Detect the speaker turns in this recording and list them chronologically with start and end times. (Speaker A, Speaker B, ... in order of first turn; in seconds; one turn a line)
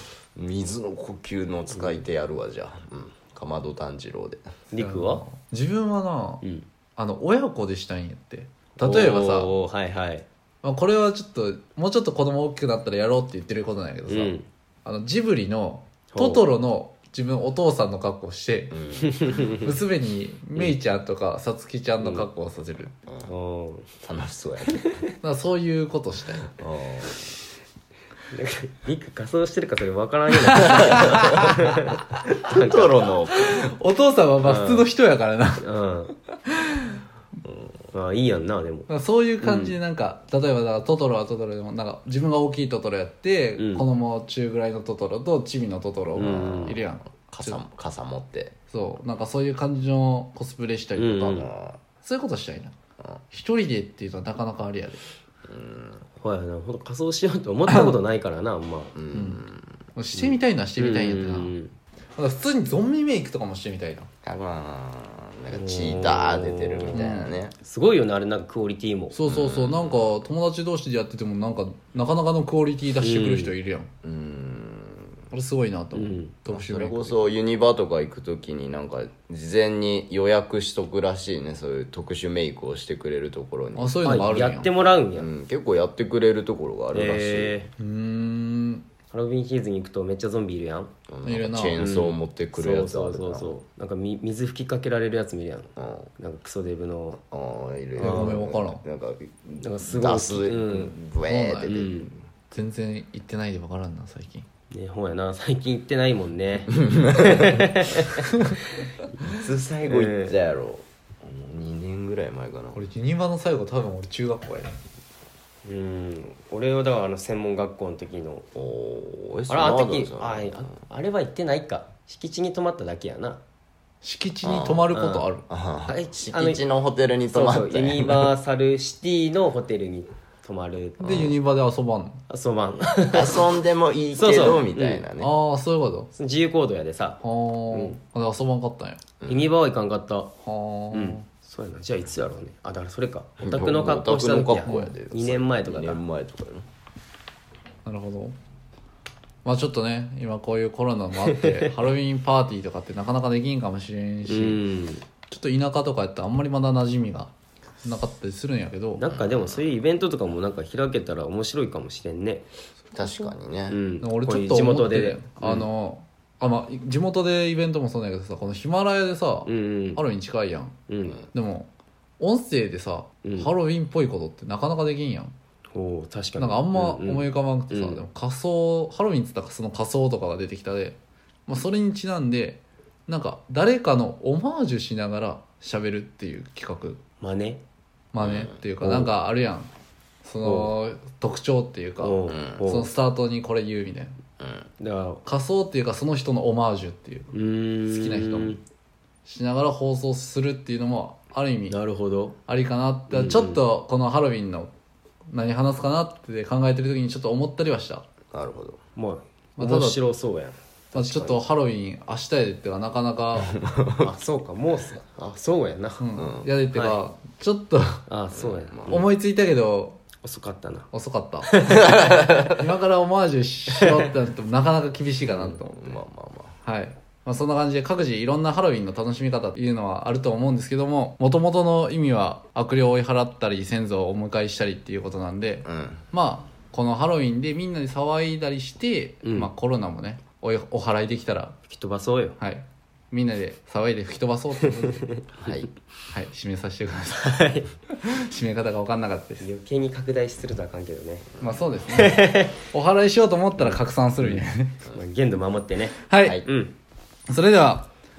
Speaker A: 0.4-4.5
Speaker B: 4.7-5.2
Speaker C: 4.8-6.4
Speaker C: 7.0-9.6
Speaker B: 8.8-10.3
Speaker C: 10.6-22.9
Speaker B: 14.1-14.5
Speaker B: 16.1-16.4
Speaker A: 18.7-19.2
Speaker B: 19.1-19.7
Speaker B: 22.0-22.3
Speaker B: 23.2-23.9
Speaker A: 24.0-24.9
Speaker C: 25.2-26.5
Speaker A: 26.6-27.3
Speaker B: 28.3-33.1
Speaker C: 30.5-31.5
Speaker A: 32.5-33.7
Speaker C: 33.4-35.7
Speaker B: 34.4-34.9
Speaker B: 35.6-36.1
Speaker C: 36.3-37.0
Speaker B: 37.9-38.9
Speaker C: 38.9-47.6
Speaker B: 39.4-39.8
Speaker B: 43.6-43.9
Speaker B: 46.2-46.8
Speaker A: 46.2-46.8
Speaker A: 47.3-48.5
Speaker C: 48.7-51.5
Speaker B: 51.0-51.5
Speaker A: 51.4-51.8
Speaker C: 52.0-52.7
Speaker C: 53.3-55.0
Speaker A: 55.5-56.0
Speaker B: 56.2-59.0
Speaker C: 57.7-57.9
Speaker A: 59.0-59.7
Speaker C: 59.1-59.5
Speaker C: 60.0-61.5
Speaker B: 60.2-61.7
Speaker C: 62.2-64.1
Speaker A: 64.2-67.5
Speaker B: 65.5-67.1
Speaker C: 66.9-67.3
Speaker B: 67.6-69.2
Speaker C: 69.1-73.9
Speaker A: 69.2-70.2
Speaker B: 73.0-73.5
Speaker A: 74.0-75.2
Speaker C: 75.3-77.3
Speaker B: 75.9-76.3
Speaker A: 76.5-84.0
Speaker C: 83.8-84.7
Speaker B: 84.0-85.3
Speaker A: 85.1-87.7
Speaker B: 86.9-87.7
Speaker C: 87.8-88.8
Speaker B: 89.1-90.9
Speaker A: 91.1-93.6
Speaker C: 91.2-91.9
Speaker B: 91.8-97.2
Speaker A: 95.8-96.1
Speaker A: 97.2-102.2
Speaker C: 98.0-98.8
Speaker B: 98.0-98.4
Speaker B: 99.6-101.0
Speaker C: 101.3-101.7
Speaker B: 101.7-102.1
Speaker C: 102.5-104.5
Speaker B: 104.7-108.2
Speaker A: 106.8-107.5
Speaker A: 109.3-112.8
Speaker B: 109.9-110.3
Speaker C: 112.7-114.8
Speaker B: 115.7-118.5
Speaker A: 118.6-120.7
Speaker B: 119.5-123.4
Speaker C: 124.0-125.5
Speaker A: 124.4-124.9
Speaker B: 124.9-125.3
Speaker A: 125.5-128.3
Speaker B: 125.9-126.7
Speaker B: 127.3-131.3
Speaker C: 131.0-132.2
Speaker B: 132.3-133.5
Speaker A: 133.1-135.3
Speaker B: 134.2-135.0
Speaker C: 135.2-136.1
Speaker B: 136.1-138.0
Speaker C: 137.2-139.0
Speaker A: 139.2-139.5
Speaker B: 139.3-140.3
Speaker C: 140.4-141.2
Speaker B: 140.9-146.0
Speaker A: 143.4-146.7
Speaker C: 144.7-144.9
Speaker C: 147.8-148.3
Speaker C: 149.4-154.6
Speaker B: 154.3-155.0
Speaker C: 155.3-157.3
Speaker C: 157.8-159.1
Speaker B: 159.0-162.5
Speaker A: 159.1-159.6
Speaker A: 162.9-163.8
Speaker B: 163.7-165.7
Speaker C: 164.0-170.8
Speaker B: 169.5-170.0
Speaker B: 170.9-171.2
Speaker C: 171.3-175.3
Speaker B: 173.2-173.5
Speaker B: 175.7-178.0
Speaker C: 176.4-187.0
Speaker B: 187.2-187.6
Speaker C: 188.1-189.7
Speaker A: 188.2-188.6
Speaker B: 188.8-189.1
Speaker C: 190.2-194.2
Speaker B: 190.4-190.7
Speaker B: 192.0-192.9
Speaker A: 192.3-192.6
Speaker A: 194.4-194.7
Speaker B: 194.8-195.2
Speaker C: 195.2-197.3
Speaker B: 197.3-198.6
Speaker C: 197.9-198.6
Speaker C: 199.2-201.8
Speaker B: 201.7-202.4
Speaker C: 202.5-204.7
Speaker B: 203.1-203.6
Speaker C: 205.3-208.1
Speaker A: 208.3-208.8
Speaker B: 209.0-211.4
Speaker C: 209.6-210.0
Speaker C: 210.9-213.6
Speaker A: 213.5-214.1
Speaker B: 214.0-216.1
Speaker C: 216.0-218.0
Speaker A: 216.2-216.5
Speaker B: 216.7-217.0
Speaker B: 218.1-219.1
Speaker A: 218.3-219.0
Speaker C: 218.9-220.0
Speaker B: 220.2-220.9
Speaker C: 220.9-226.0
Speaker B: 221.4-221.9
Speaker A: 221.8-222.6
Speaker B: 225.3-225.6
Speaker A: 225.8-226.6
Speaker C: 226.7-241.6
Speaker A: 235.7-236.0
Speaker B: 239.2-239.5
Speaker B: 241.7-242.4
Speaker C: 242.4-245.2
Speaker A: 245.4-245.7
Speaker C: 246.1-249.5
Speaker B: 247.2-247.7
Speaker B: 249.4-251.3
Speaker C: 251.4-254.8
Speaker B: 251.9-252.6
Speaker B: 253.6-256.7
Speaker C: 256.1-256.4
Speaker C: 257.3-257.9